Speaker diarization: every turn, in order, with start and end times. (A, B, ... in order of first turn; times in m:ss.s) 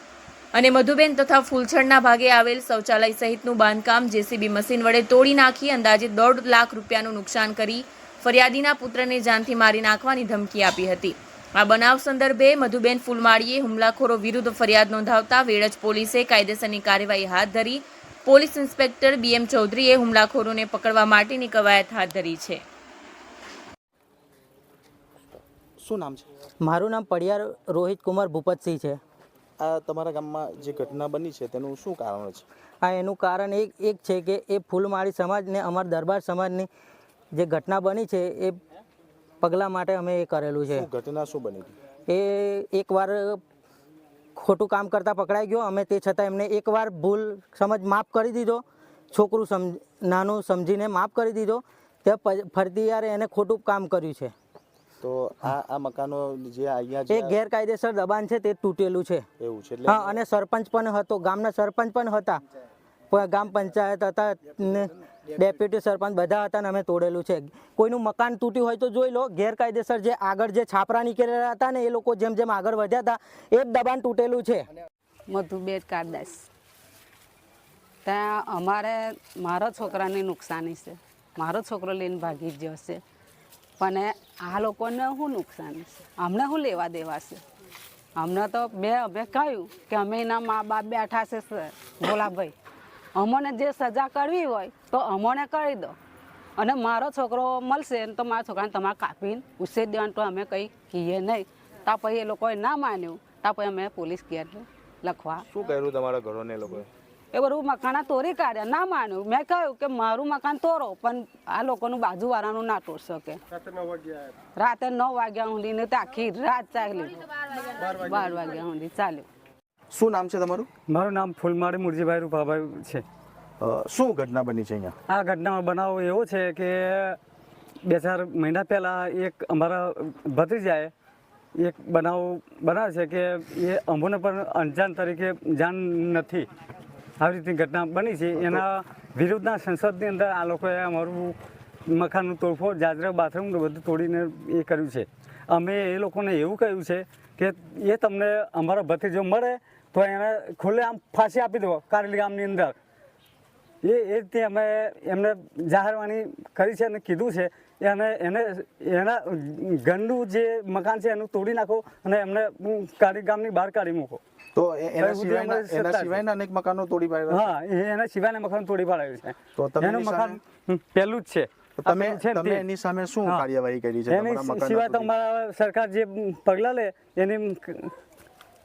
0:00.5-0:22.6 A
0:25.4-0:26.3 B
0:26.6-0:29.0 C
0:29.6-0:32.4 B
0:32.8-0:36.7 C
0:37.3-0:38.6 C
0:39.4-0:40.9 C
0:40.7-0:41.8 B
0:42.1-0:43.4 C
0:44.4-0:54.3 C
0:55.0-0:57.4 B
0:57.1-0:59.3 C
0:59.4-1:00.2 B
0:59.9-1:02.4 C
1:03.1-1:14.7 C
1:15.3-1:16.5 D
1:18.0-1:23.0 D
1:23.8-1:27.4 D
1:28.2-1:32.5 D
1:33.2-1:36.0 D
1:36.6-1:45.4 D
1:45.5-1:46.9 B
1:47.3-1:53.4 D
1:54.6-1:59.3 D
1:59.9-2:00.7 B
2:00.9-2:03.0 E
2:03.6-2:05.0 B
2:05.1-2:07.2 E
2:07.8-2:10.9 E
2:11.6-2:16.5 E
2:17.2-2:21.4 E
2:18.4-2:18.6 B
2:21.9-2:32.8 E
2:33.8-2:44.2 E
2:44.6-2:47.5 B
2:45.0-2:46.2 E
2:47.3-2:52.6 E
2:49.6-2:50.4 B
2:51.8-2:55.1 B
2:54.1-2:57.9 E